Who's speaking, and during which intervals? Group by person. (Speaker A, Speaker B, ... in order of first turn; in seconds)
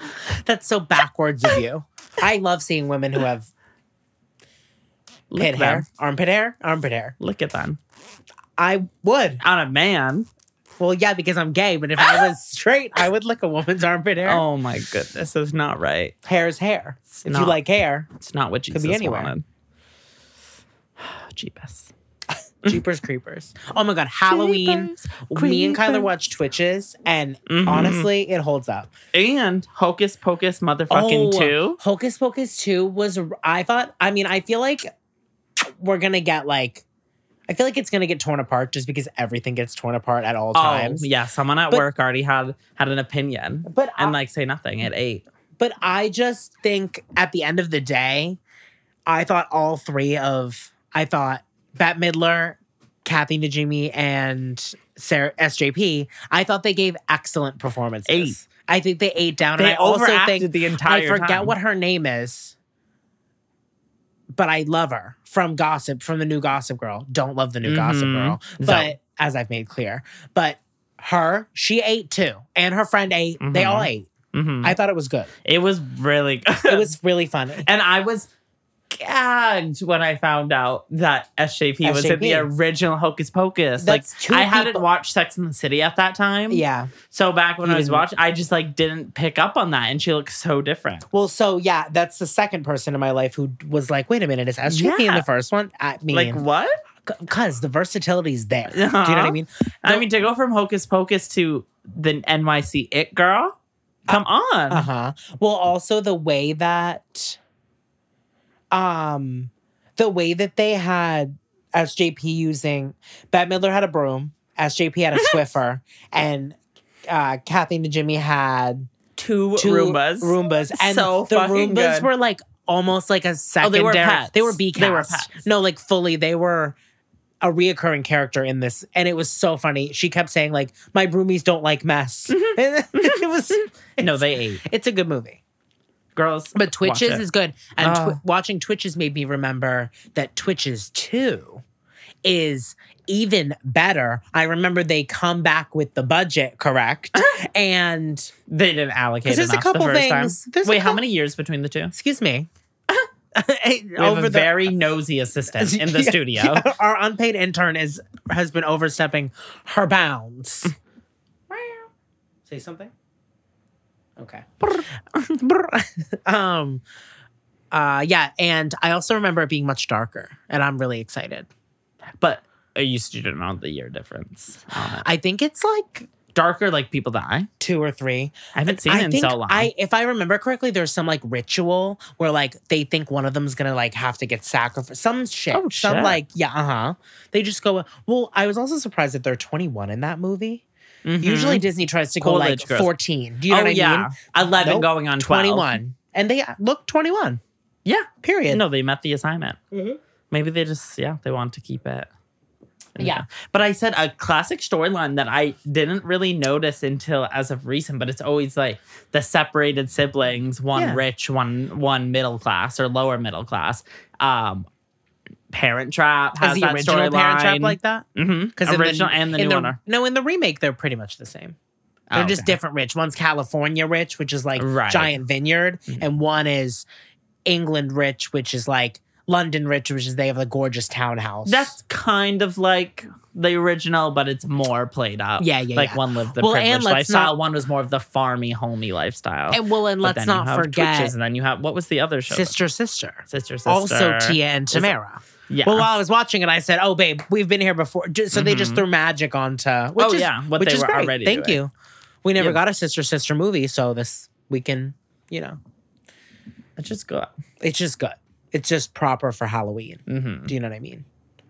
Speaker A: 0.3-3.5, 5.4-7.2, 8.6-9.4, 10.8-14.4, 16.2-18.1, 18.7-19.3, 22.6-28.9, 30.9-34.9, 35.6-36.8, 37.5-41.1, 43.7-44.2, 45.6-48.4, 49.1-62.6, 64.3-74.1, 74.6-75.3, 76.7-77.7, 81.8-82.5, 83.8-84.9, 86.5-86.9, 87.6-88.0, 91.1-96.4, 97.1-100.1, 104.1-107.4, 108.7-118.9, 119.6-126.8, 127.4-135.4, 136.5-141.6, 142.2-148.3, 149.3-151.0, 151.9-152.5, 153.3-154.7, 155.5-160.7, 161.5-161.9, 162.5-162.9, 164.2-164.5, 165.2-166.8, 167.7-171.5, 175.0-176.1, 177.6-190.6, 191.2-197.4, 198.2-198.6, 203.0-203.2, 210.7-211.0, 216.4-221.6, 222.1-226.9, 227.4-231.7, 235.4-237.3, 239.5-241.1, 242.3-251.7, 252.2-255.6, 257.6-261.1
Speaker B: 5.3-5.9, 7.2-7.8, 9.4-10.3, 14.2-16.1, 17.1-17.6, 18.2-19.4, 21.0-21.9, 24.3-26.1, 27.5-28.1, 29.1-31.8, 40.5-45.2, 58.1-58.4, 59.6-61.5, 67.6-68.9, 73.4-74.8, 75.5-76.9, 77.6-78.3, 78.9-91.1, 94.7-95.2, 96.1-96.8, 98.7-103.5, 104.1-104.9, 119.2-122.1, 123.6-125.3, 132.3-133.2, 134.0-134.6, 136.2-137.2, 137.8-138.2, 148.5-151.9, 154.0-156.7, 172.2-175.1, 176.3-177.5, 178.6-179.7, 185.5-186.2, 191.1-191.7, 192.2-192.9, 193.5-195.8, 197.8-199.6, 200.3-202.1, 203.0-214.7, 215.5-219.8, 222.1-222.6, 224.6-225.2, 231.4-242.6, 243.3-244.9, 245.5-245.9, 248.3-248.8, 250.0-251.6, 256.8-257.3, 260.1-260.5